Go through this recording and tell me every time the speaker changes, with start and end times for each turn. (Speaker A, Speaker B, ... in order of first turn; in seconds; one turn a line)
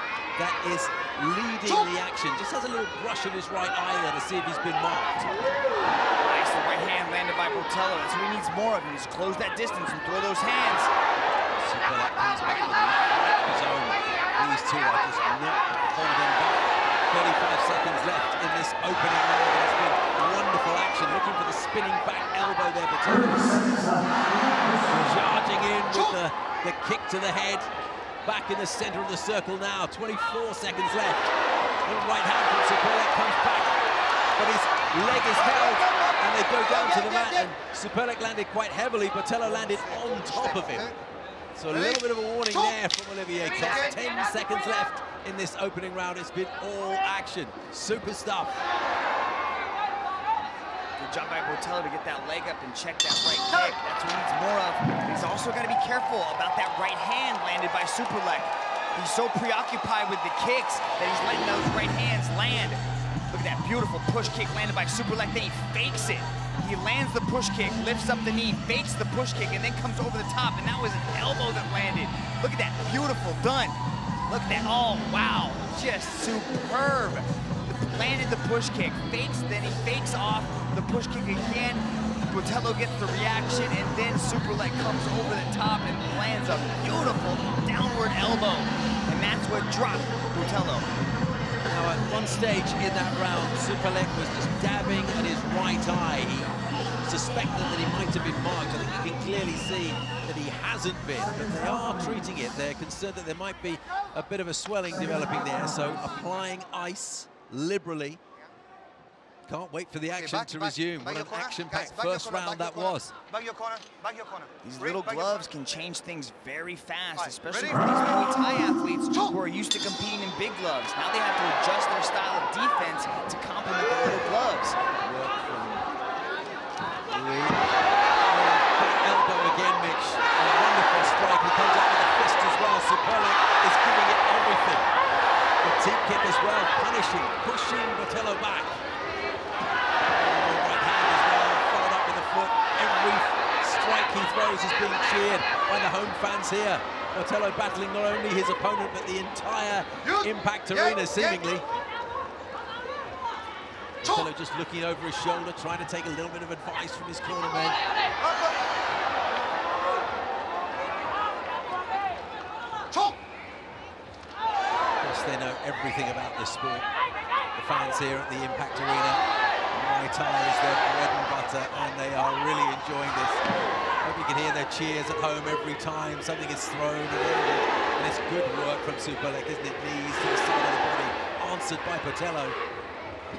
Speaker A: 0.3-5.3
Speaker B: 6.2-10.9
Speaker A: 11.5-23.9
Speaker A: 24.8-27.7
Speaker A: 28.2-31.3
Speaker A: 31.8-33.8
Speaker A: 34.4-40.9
Speaker A: 41.5-48.6
Speaker B: 51.0-90.8
Speaker A: 91.7-96.5
Speaker A: 97.0-108.2
Speaker A: 109.5-113.1
Speaker C: 110.1-115.2
Speaker B: 114.6-124.8
Speaker A: 125.0-125.9
Speaker A: 127.1-127.6
Speaker A: 128.3-134.9
Speaker A: 135.6-138.7
Speaker A: 140.1-151.6
Speaker A: 154.0-157.8
Speaker A: 165.0-166.9
Speaker A: 167.6-173.4
Speaker A: 174.0-182.6